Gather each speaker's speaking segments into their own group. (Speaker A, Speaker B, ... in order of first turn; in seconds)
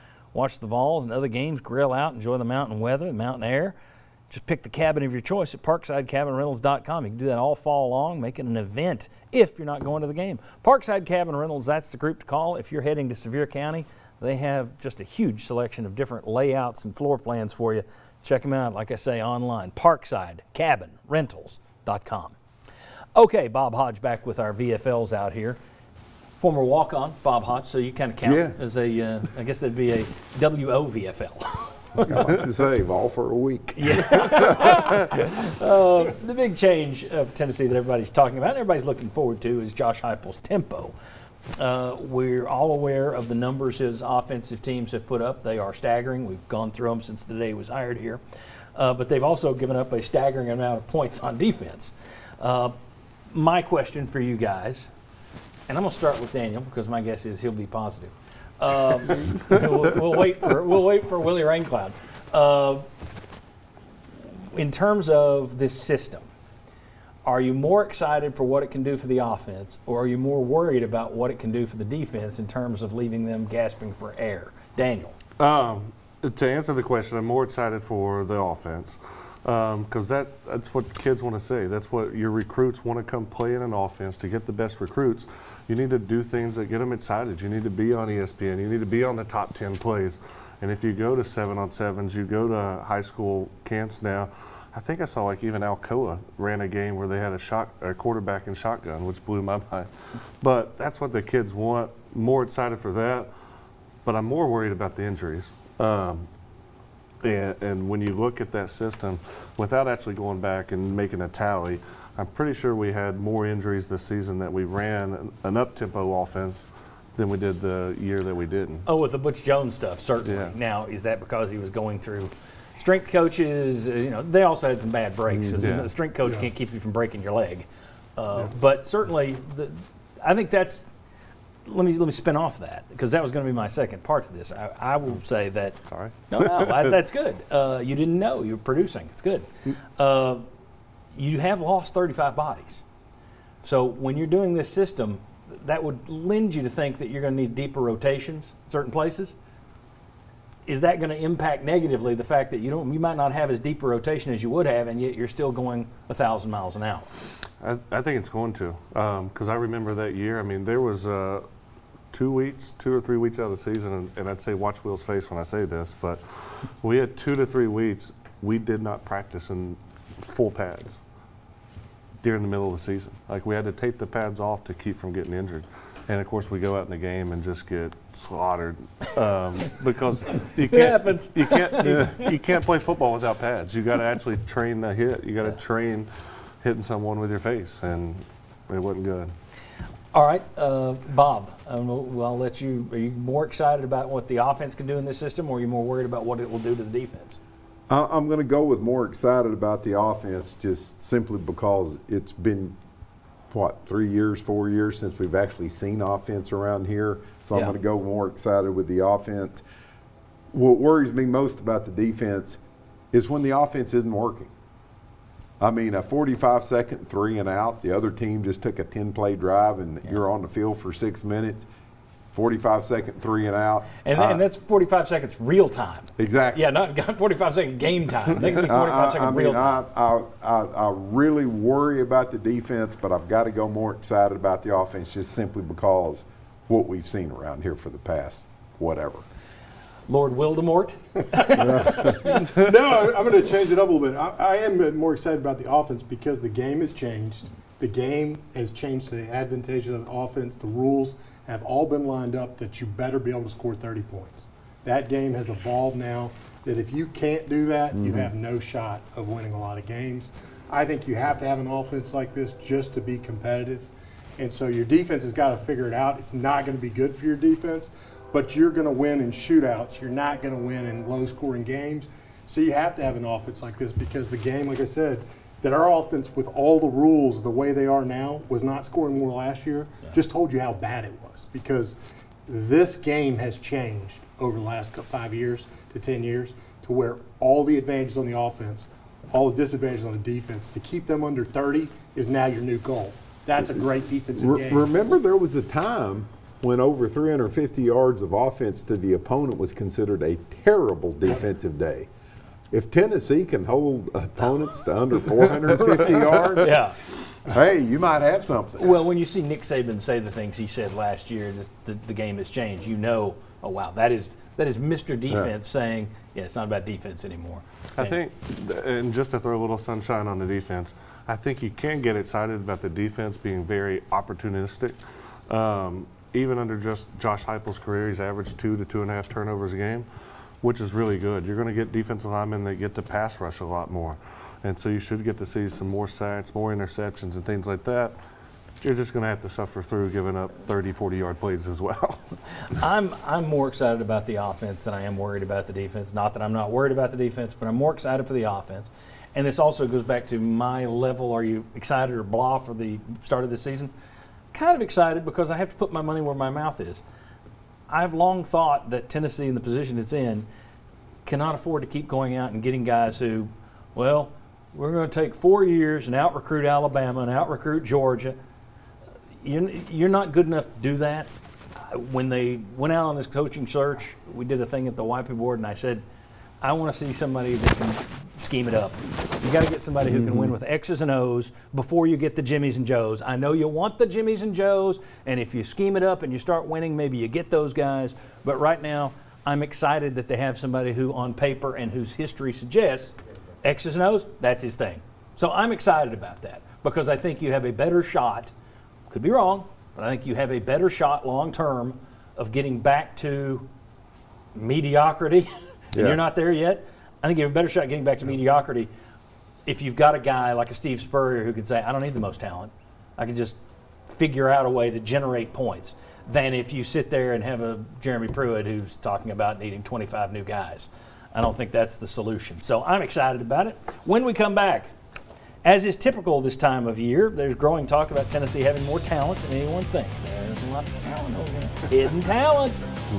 Speaker A: 0.3-3.7, 4.3-22.4, 23.1-25.6, 26.4-32.0, 33.8-40.9, 41.5-48.2, 48.7-52.8, 53.3-54.9, 55.7-62.9, 64.4-66.3, 67.2-75.2, 118.8-130.8, 131.6-135.8, 136.3-140.4, 141.1-142.8, 143.6-149.3, 150.7-157.1, 180.7-182.1, 190.1-197.4, 224.0-229.8, 240.1-242.2, 305.8-306.9, 308.8-318.2, 342.6-353.9, 354.5-357.0, 357.9-360.5, 361.2-368.4, 369.4-376.0, 376.6-393.1, 393.6-398.5, 399.1-403.7, 404.5-408.9, 409.6-424.9, 425.6-432.9
Speaker B: 28.2-28.6, 32.0-34.7, 125.5-125.7, 197.9-202.8, 203.5-209.6, 210.5-212.6, 213.1-214.5, 215.6-221.7, 222.3-224.4, 226.2-226.7, 228.4-239.2, 241.6-242.2, 257.9-258.3, 294.4-302.1, 302.7-306.8, 307.4-309.0, 380.1-380.5, 405.9-406.2
Speaker C: 75.4-103.3, 104.0-106.3, 107.2-118.8, 120.2-120.5, 125.6-125.9, 135.9-136.2, 157.6-161.4, 162.1-171.0, 172.2-189.3, 318.0-330.1, 330.6-338.2, 338.8-342.2
Speaker D: 241.7-294.9